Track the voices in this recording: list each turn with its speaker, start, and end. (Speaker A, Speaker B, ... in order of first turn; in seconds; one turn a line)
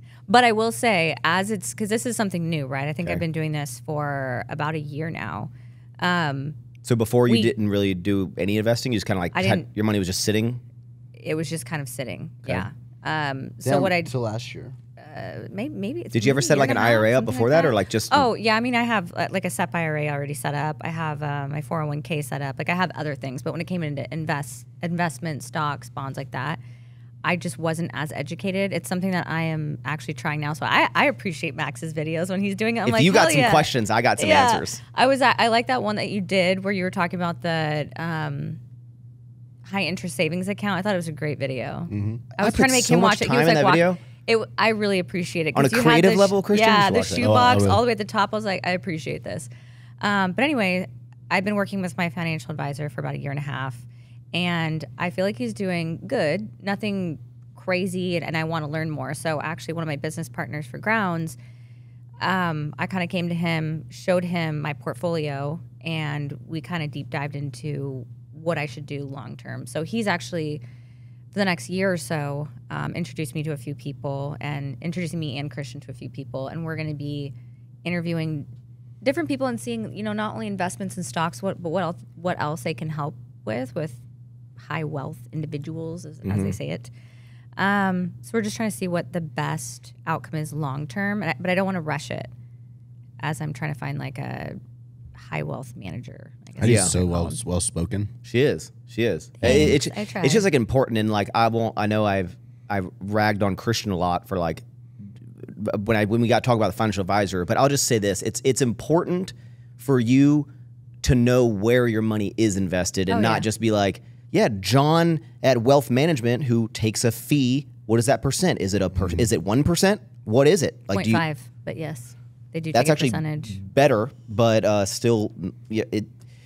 Speaker A: 0.3-6.6
Speaker B: 6.8-10.6
Speaker A: 9.3-9.7
Speaker A: 11.2-14.1
Speaker C: 13.6-14.8
Speaker A: 15.0-26.6
Speaker B: 16.1-18.3
Speaker A: 27.2-38.6
Speaker B: 32.9-34.8
Speaker A: 39.6-49.5
Speaker C: 41.9-42.3
Speaker B: 42.4-44.0
Speaker B: 45.5-47.3
Speaker C: 47.2-47.8
Speaker A: 50.0-61.4
Speaker A: 62.2-70.6
Speaker A: 71.3-77.3
Speaker A: 77.8-78.5
Speaker A: 79.0-84.0
Speaker A: 84.6-86.9
Speaker B: 86.2-86.6
Speaker A: 87.6-92.3
Speaker A: 93.2-94.6
Speaker A: 95.2-97.4
Speaker C: 96.6-98.1
Speaker B: 96.6-97.0
Speaker B: 98.2-104.6
Speaker A: 99.4-100.5
Speaker B: 105.4-110.5
Speaker B: 111.0-121.2
Speaker A: 113.1-113.5
Speaker A: 120.9-123.6
Speaker B: 122.7-126.1